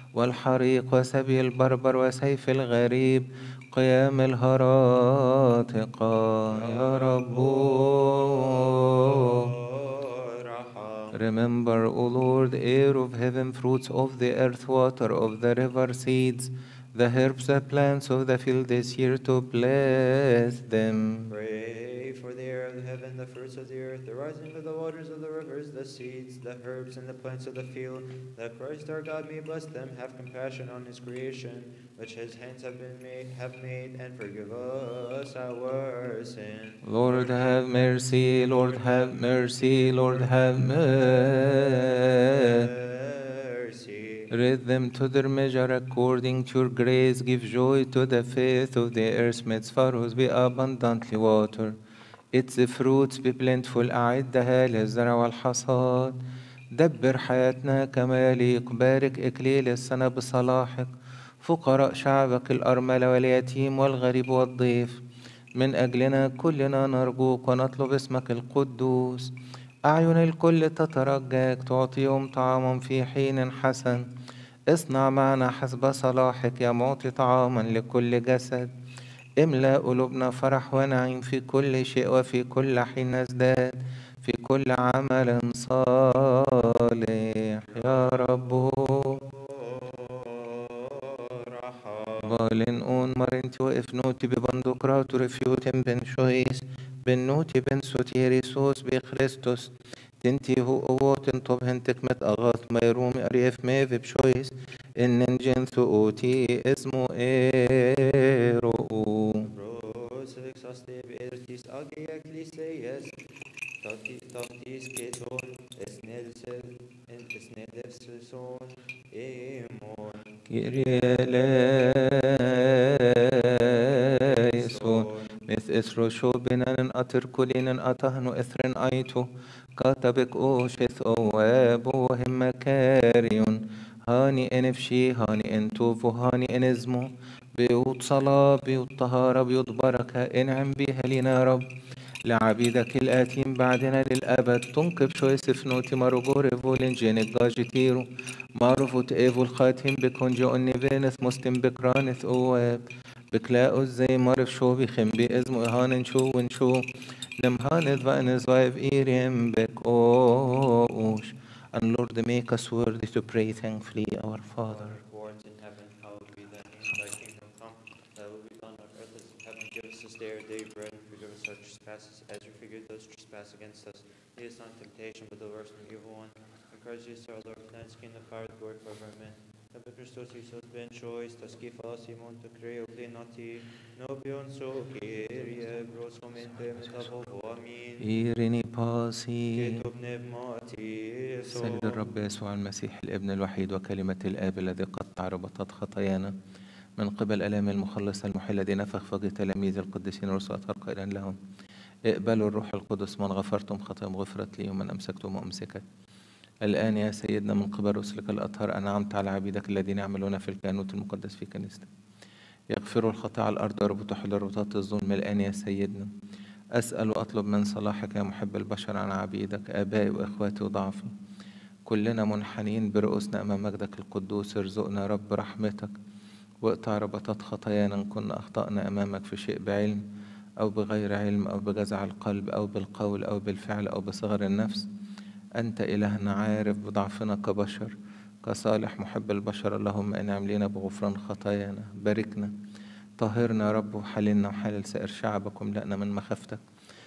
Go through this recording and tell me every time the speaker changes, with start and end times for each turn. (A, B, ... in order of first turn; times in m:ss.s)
0:00.1-0:09.5 A
0:06.5-0:11.2 B
0:11.1-0:21.3 A
0:21.3-0:37.5 B
0:36.8-0:42.7 A
0:38.6-0:40.3 B
0:41.3-0:44.3 B
0:44.3-0:51.7 A
0:52.3-0:56.2 A
0:56.7-1:05.0 A
1:05.5-1:14.1 A
1:14.7-1:18.7 A
1:19.4-1:29.2 A
1:27.7-1:32.4 B
1:32.2-1:49.5 A
1:49.5-1:53.2 B
1:53.8-2:05.4 B
2:00.5-2:21.6 A
2:22.2-2:28.1 A
2:28.6-2:36.8 A
2:37.4-2:45.0 A
2:44.7-3:08.1 B
3:08.0-3:09.8 A
3:09.5-3:12.0 B
3:11.5-3:16.3 A
3:17.0-3:21.4 A
3:22.0-3:25.8 A
3:26.6-3:31.9 A
3:32.7-3:36.1 A
3:36.7-3:41.1 A
3:41.8-3:45.9 A
3:46.6-3:50.0 A
3:50.6-3:54.9 A
3:55.6-4:02.5 A
4:03.2-4:06.6 A